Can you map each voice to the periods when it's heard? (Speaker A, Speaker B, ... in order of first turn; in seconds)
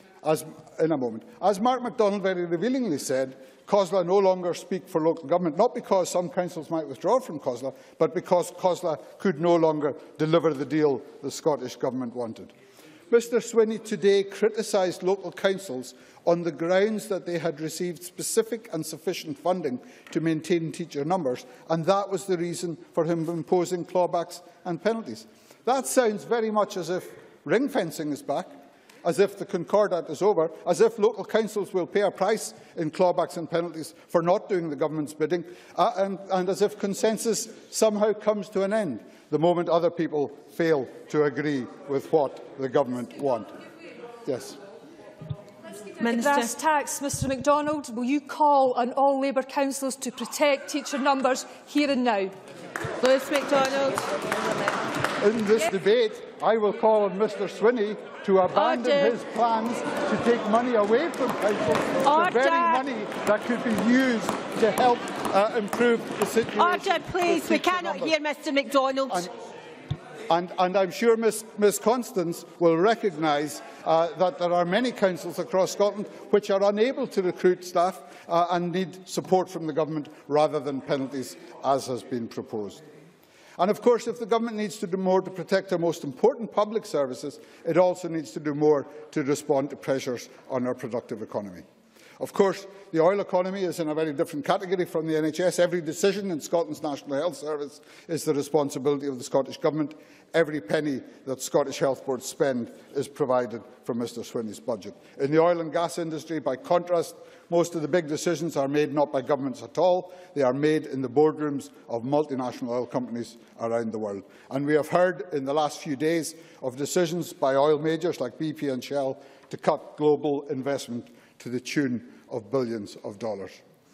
Speaker A: 0.2-12.5, 13.1-28.5, 29.0-43.5, 44.2-44.6, 55.2-68.2, 70.3-82.8, 83.6-91.6, 92.2-123.6
Speaker B: 46.0-46.5, 53.0-54.1, 58.6-58.9, 62.1-62.7
Speaker C: 46.1-52.3, 62.3-62.5, 66.6-69.2